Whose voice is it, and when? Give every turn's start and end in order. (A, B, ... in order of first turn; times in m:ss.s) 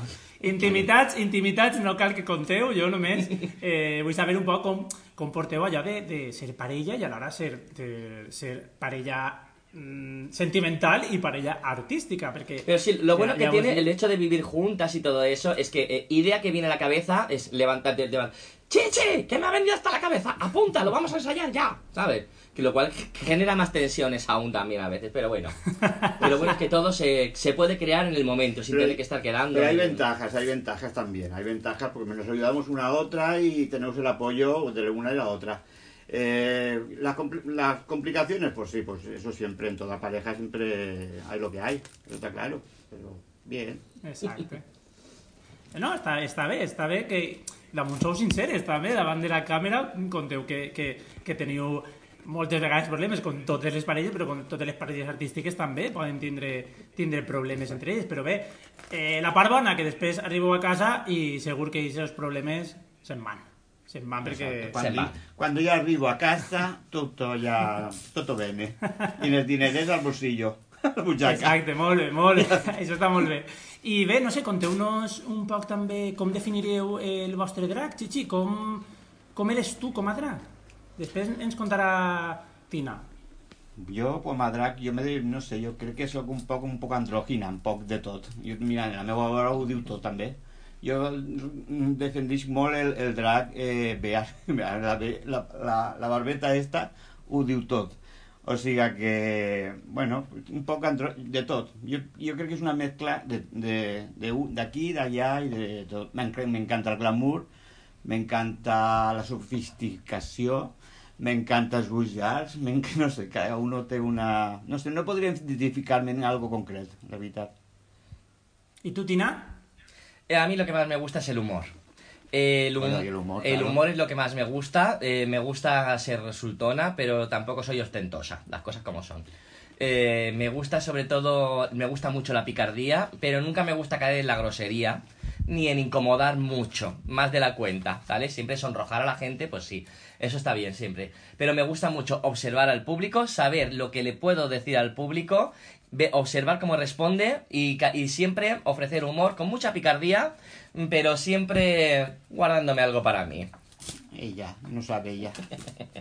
0:00.4-0:13.9 A
0:12.7-0:30.0 B
0:26.2-0:26.5 C
0:28.7-0:29.0 C
0:29.5-0:43.8 C
0:44.0-0:44.6 A
0:45.7-1:04.8 A
1:04.2-1:11.6 C
1:04.7-1:05.2 B
1:11.2-1:20.5 A
1:21.0-1:23.1 A
1:23.8-1:47.5 C
1:48.0-1:57.5 C
1:58.8-1:59.6 A
2:00.3-2:01.7 B
2:02.3-2:09.2 B
2:02.8-2:03.8 C
2:09.8-2:33.5 B
2:34.1-2:35.4 C